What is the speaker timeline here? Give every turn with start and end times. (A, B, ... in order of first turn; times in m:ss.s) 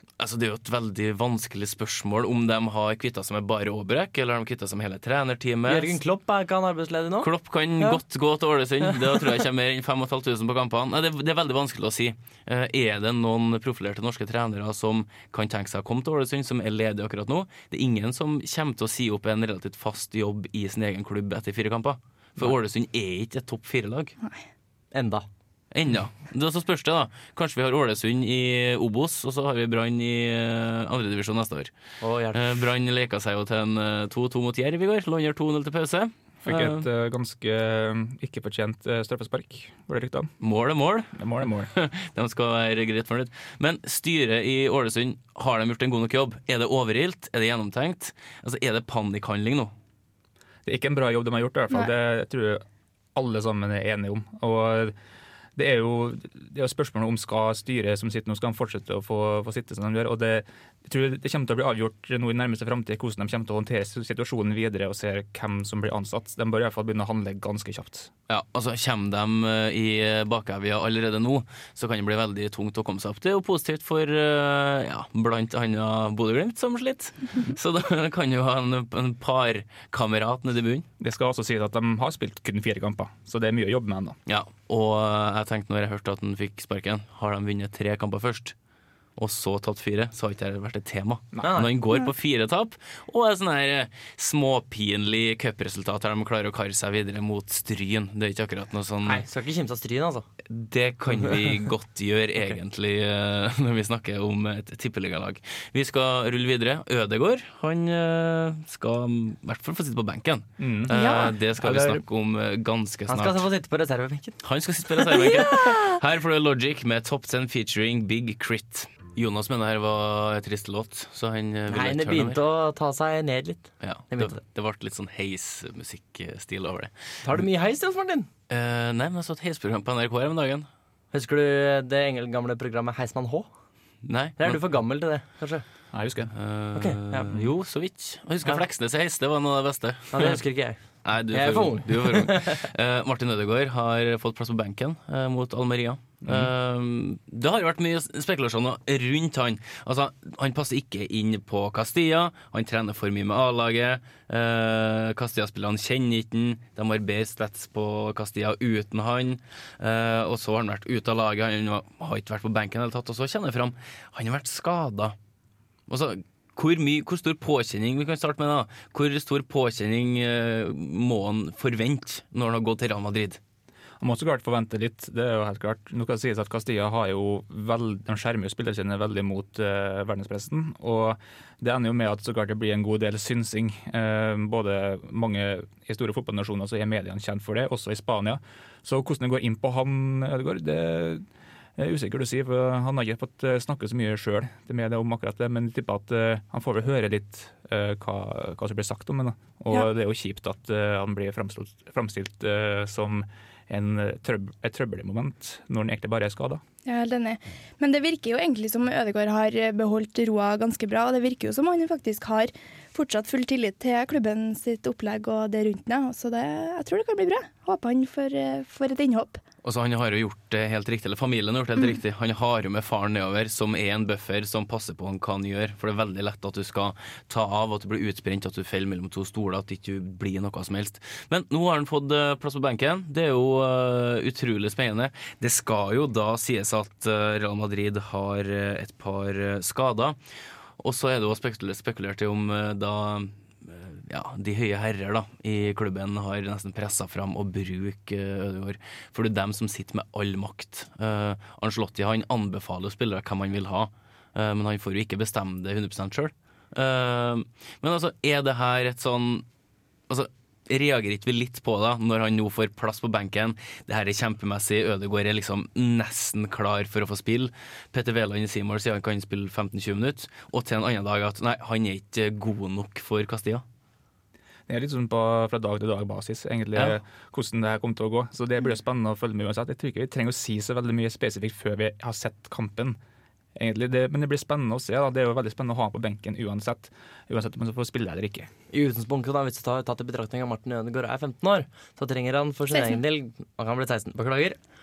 0:00.2-0:06.0 A
0:05.7-0:07.3 B
0:07.2-0:24.2 A
0:24.9-0:25.3 B
0:25.7-0:31.7 A
0:32.0-0:32.4 B
0:32.3-0:36.9 A
0:36.4-0:40.3 C
0:40.4-0:41.2 A
0:41.2-0:41.7 C
0:41.7-0:49.7 A
0:50.7-0:52.6 C
0:53.2-0:55.0 C
0:55.6-1:08.1 C
1:08.3-1:20.9 A
1:21.0-1:24.2 C
1:24.3-1:28.6 A
1:29.2-1:39.2 A
1:31.4-1:31.7 B
1:39.0-1:40.3 B
1:40.5-1:53.5 A
1:50.6-1:51.0 C
1:50.9-1:51.3 D
1:51.6-1:52.0 B
1:53.1-1:54.4 B
1:54.4-2:02.4 A
2:01.7-2:04.4 B
2:03.8-2:06.9 A
2:07.2-2:08.3 B
2:08.5-2:10.7 A
2:11.1-2:13.5 B
2:14.0-2:14.6 A
2:14.4-2:15.6 B
2:15.9-2:16.3 C
2:16.3-2:20.4 A
2:16.7-2:17.5 B
2:20.1-2:22.6 B
2:21.0-2:45.2 A
2:26.2-2:26.5 C
2:45.9-2:53.4 A
2:54.0-3:11.3 C
3:11.8-3:26.6 C
3:26.8-3:39.4 D
3:39.6-4:00.2 A
4:00.8-4:19.4 A
4:20.1-4:33.6 A
4:34.7-4:43.0 C
4:43.6-4:48.5 C
4:48.7-4:54.6 B
4:52.7-4:53.0 D